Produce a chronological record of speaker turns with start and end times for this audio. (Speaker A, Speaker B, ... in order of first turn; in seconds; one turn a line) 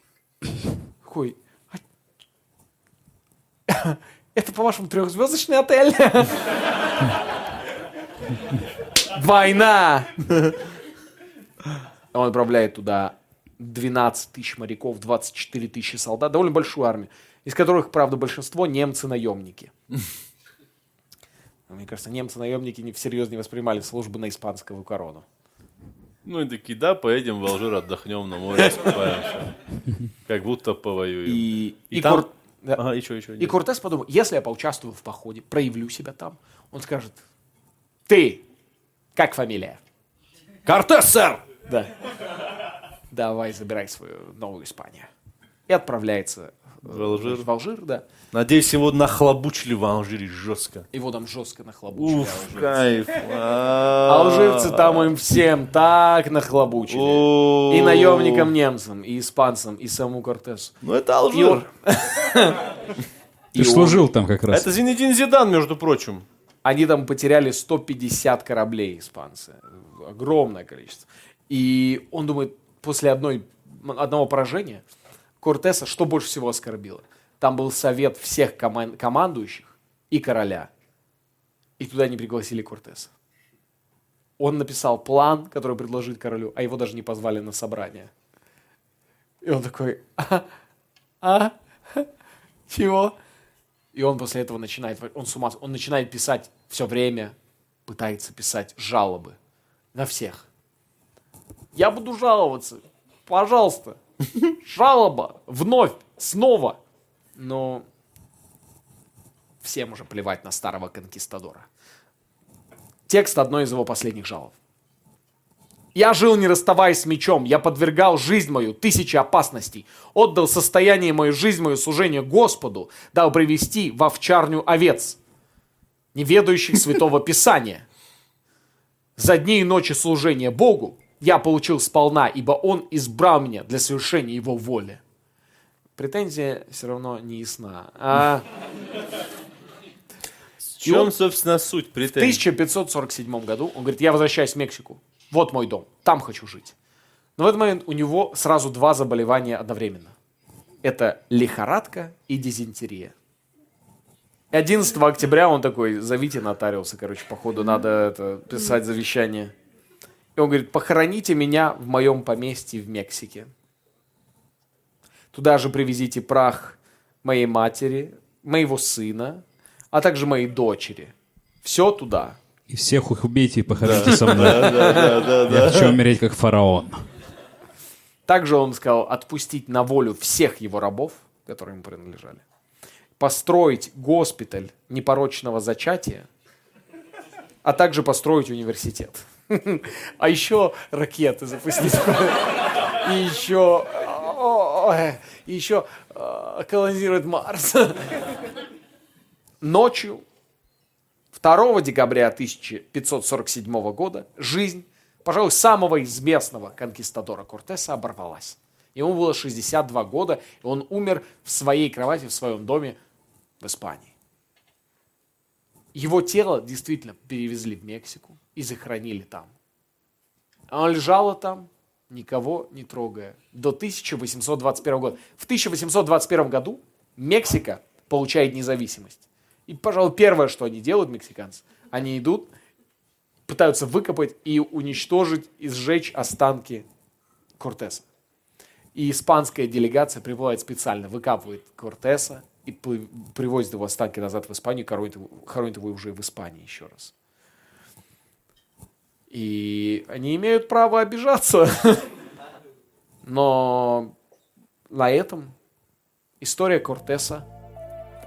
Speaker A: 1.0-1.8
Speaker A: 3.7-6.4
Speaker A: 9.1-10.6
Speaker A: 12.1-19.7
Speaker A: 21.7-25.2
Speaker B: 26.2-29.5
Speaker B: 30.2-33.6
Speaker A: 31.2-32.8
Speaker A: 33.4-37.2
Speaker A: 38.1-38.5
Speaker A: 39.1-39.8
Speaker B: 40.6-41.4
Speaker A: 41.6-41.9
Speaker A: 43.1-45.1
Speaker A: 45.7-48.0
Speaker B: 46.8-47.5
Speaker B: 48.3-50.9
Speaker A: 50.9-52.9
Speaker B: 51.9-55.2
Speaker A: 54.0-60.8
Speaker B: 56.9-58.5
Speaker B: 60.8-61.6
Speaker A: 61.3-62.7
Speaker A: 63.5-64.0
Speaker C: 63.5-64.7
Speaker B: 64.5-66.2
Speaker A: 66.6-74.8
Speaker A: 75.4-80.7
Speaker A: 81.8-83.1
Speaker A: 84.4-88.1
Speaker A: 89.4-90.5
Speaker A: 91.2-92.1
Speaker A: 92.7-93.2
Speaker A: 93.9-97.3
Speaker A: 97.8-99.4
Speaker A: 99.9-100.5
Speaker A: 101.7-106.8
Speaker A: 107.3-107.8
Speaker A: 109.6-111.7
Speaker A: 113.1-114.5
Speaker A: 115.9-125.2
Speaker A: 126.1-127.8
Speaker A: 129.2-135.0
Speaker A: 136.0-138.5
Speaker B: 140.6-142.4
Speaker A: 140.8-141.1
Speaker A: 142.1-146.7
Speaker A: 147.4-150.1
Speaker A: 150.8-153.1
Speaker A: 154.5-159.5
Speaker A: 160.3-163.5
Speaker A: 165.3-172.4
Speaker C: 172.7-177.0
Speaker B: 173.7-176.0
Speaker A: 174.0-175.0
Speaker A: 178.3-182.4
Speaker A: 183.2-186.3
Speaker A: 187.6-198.2
Speaker A: 199.6-200.2
Speaker A: 201.3-213.0
Speaker A: 213.6-214.1
Speaker A: 215.9-219.5
Speaker A: 220.7-232.5
Speaker A: 233.5-236.9
Speaker A: 237.6-238.1
Speaker A: 238.9-247.1
Speaker A: 249.3-252.1
Speaker A: 253.2-254.1
Speaker A: 254.9-255.5
Speaker A: 256.4-257.5